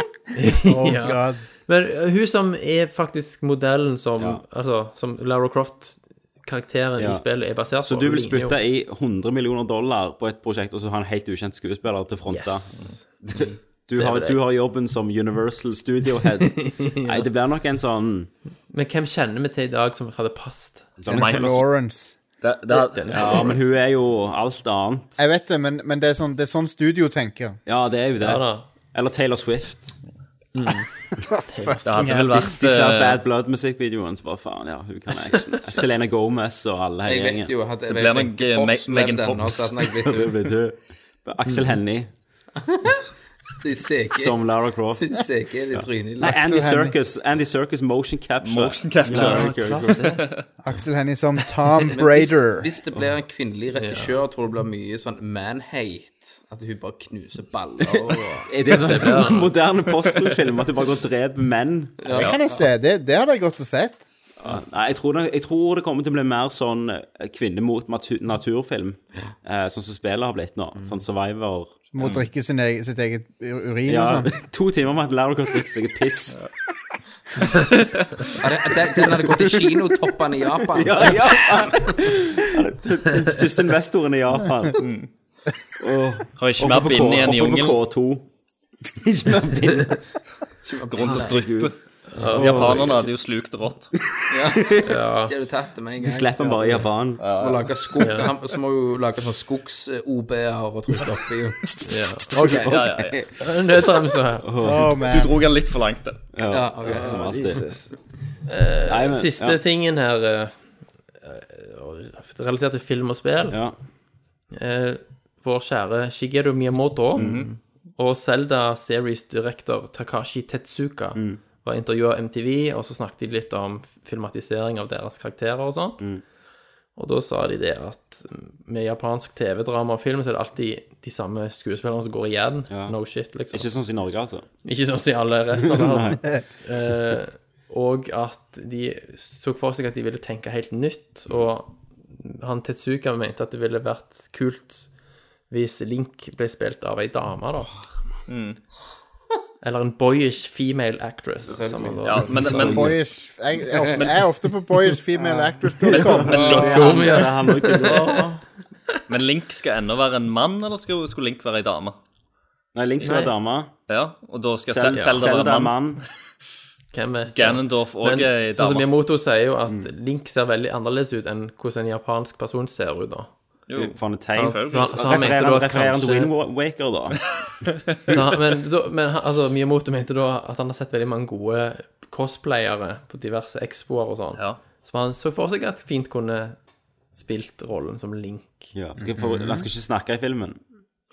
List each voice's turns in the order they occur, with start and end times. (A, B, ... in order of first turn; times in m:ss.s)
0:00.4-0:08.6 A
0:00.6-0:01.4 B
0:07.0-0:07.2 C
0:07.8-0:18.3 C
0:12.3-0:13.1 A
0:13.3-0:13.6 D
0:14.0-0:14.4 A
0:16.5-0:17.3 A
0:18.7-0:21.0 A
0:21.0-0:21.7 C
0:21.1-0:22.2 B
0:21.1-0:21.5 E
0:22.4-0:23.6 E
0:22.7-0:23.6 A
0:23.1-0:25.2 C
0:25.2-0:27.6 B
0:27.7-0:30.0 C
0:28.2-0:28.7 A
0:30.6-0:30.9 A
0:31.2-0:32.6 B
0:31.5-0:31.8 A
0:31.8-0:33.2 E
0:32.1-0:37.5 C
0:37.0-0:40.4 D
0:37.9-0:39.9 E
0:40.1-0:42.1 C
0:42.6-0:43.0 D
0:43.6-0:46.4 D
0:44.1-0:45.2 C
0:45.7-0:50.2 C
0:46.2-0:47.0 B
0:48.4-0:50.4 E
0:49.1-0:50.2 A
0:50.6-0:52.7 B
0:51.9-0:58.5 D
0:53.8-0:54.1 A
0:58.0-1:02.0 C
0:58.7-0:59.5 A
1:02.0-1:02.6 D
1:02.1-1:04.0 B
1:04.4-1:11.8 C
1:11.9-1:14.3 B
1:13.9-1:16.4 C
1:18.4-1:21.8 D
1:18.8-1:20.0 C
1:20.7-1:24.8 C
1:24.8-1:25.1 E
1:25.8-1:28.2 C
1:26.4-1:27.8 E
1:28.9-1:30.0 C
1:30.6-1:31.4 D
1:30.9-1:33.9 E
1:31.0-1:31.7 C
1:32.1-1:33.1 A
1:32.3-1:33.0 C
1:34.1-1:34.9 C
1:34.3-1:41.6 D
1:34.8-1:35.4 A
1:36.0-1:37.3 C
1:37.2-1:38.1 E
1:38.0-1:38.3 A
1:41.8-1:44.5 A
1:42.5-1:43.2 E
1:42.5-1:43.3 C
1:44.4-1:44.9 C
1:44.6-1:45.4 B
1:45.0-1:46.2 E
1:46.3-1:47.6 C
1:46.5-1:47.4 D
1:46.8-1:48.0 A
1:48.5-1:50.5 A
1:48.8-1:49.6 C
1:51.2-1:53.6 A
1:53.5-1:53.8 C
1:54.5-1:57.4 A
1:57.2-1:57.5 C
1:57.2-1:57.5 E
1:58.0-2:06.0 A
2:07.0-2:13.7 A
2:12.7-2:13.0 C
2:13.5-2:14.5 C
2:14.6-2:24.9 A
2:15.6-2:16.2 C
2:25.5-2:27.7 A
2:28.3-2:28.6 E
2:29.6-2:32.7 A
2:31.5-2:32.6 D
2:32.1-2:33.0 E
2:32.5-2:32.9 C
2:32.5-2:37.0 B
2:33.8-2:34.1 D
2:35.2-2:35.5 D
2:35.9-2:37.0 E
2:36.0-2:38.3 C
2:36.4-2:36.7 D
2:36.4-2:38.1 A
2:37.7-2:38.4 D
2:39.1-2:42.0 E
2:42.8-2:43.7 C
2:43.0-2:43.3 A
2:43.9-2:45.8 E
2:44.7-2:46.0 C
2:44.9-2:45.2 A
2:46.9-2:53.3 A
2:47.4-2:48.9 E
2:53.7-2:55.0 E
2:53.8-2:57.4 C
2:54.3-2:56.3 A
2:58.1-3:06.6 A
3:07.1-3:08.7 A
3:08.8-3:10.6 C